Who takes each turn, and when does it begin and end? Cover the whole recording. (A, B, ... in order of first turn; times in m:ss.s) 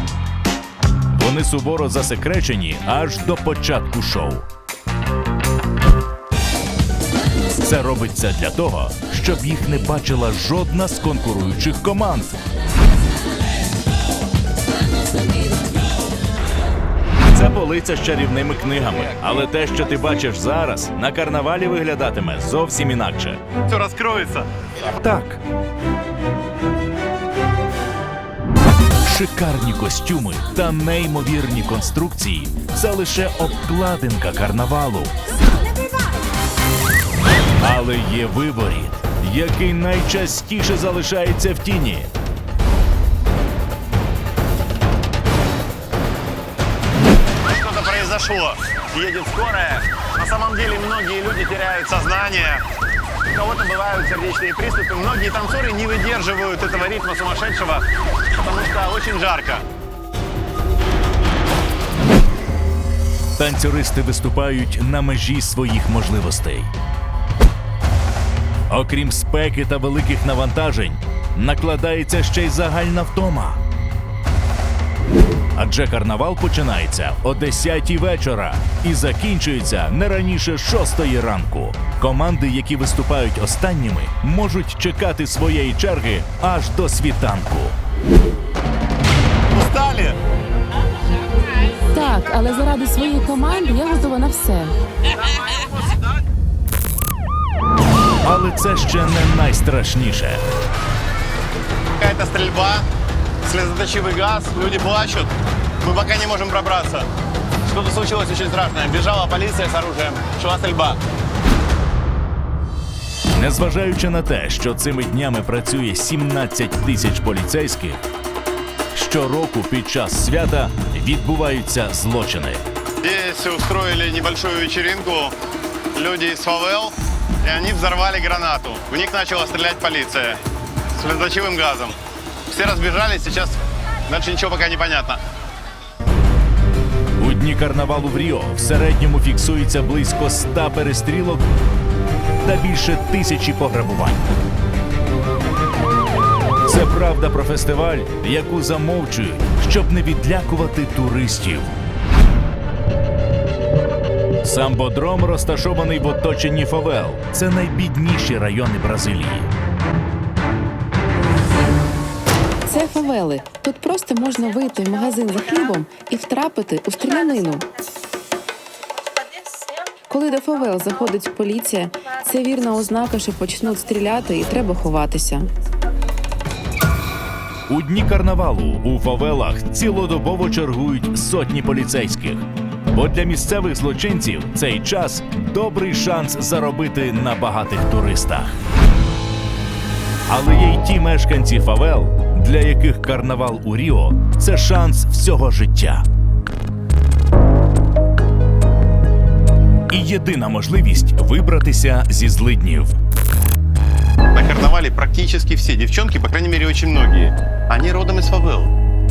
0:01.1-0:04.5 A
0:07.5-0:12.4 A
0:17.3-0:23.4 A
0:23.6-0:24.5 B
0:24.8-0:25.4 A
0:29.0-0:35.2 A
0:37.6-0:42.1 A
0:47.4-0:52.6 B
0:53.3-0:59.6 B
1:03.4-1:06.7 A
1:08.7-1:13.6 A
1:15.6-1:27.8 A
1:29.5-1:30.2 B
1:31.9-1:34.7 C
1:35.4-1:35.7 B
1:38.2-1:40.4 A
1:42.0-1:42.8 B
1:43.4-1:47.1 B
1:47.6-1:51.0 B
1:53.3-1:58.0 A
1:58.9-2:02.6 A
2:03.0-2:05.3 B
2:05.9-2:10.4 B
2:10.9-2:12.0 B
2:12.5-2:15.2 B
2:17.2-2:21.4 A
2:22.4-2:24.3 A
2:26.6-2:31.8 A
2:34.4-2:39.5 A
2:42.7-2:47.7 C
2:50.1-2:55.5 C
2:57.7-3:08.6 A
3:10.3-3:16.0 A
3:19.9-3:23.0 A
3:24.3-3:28.7 B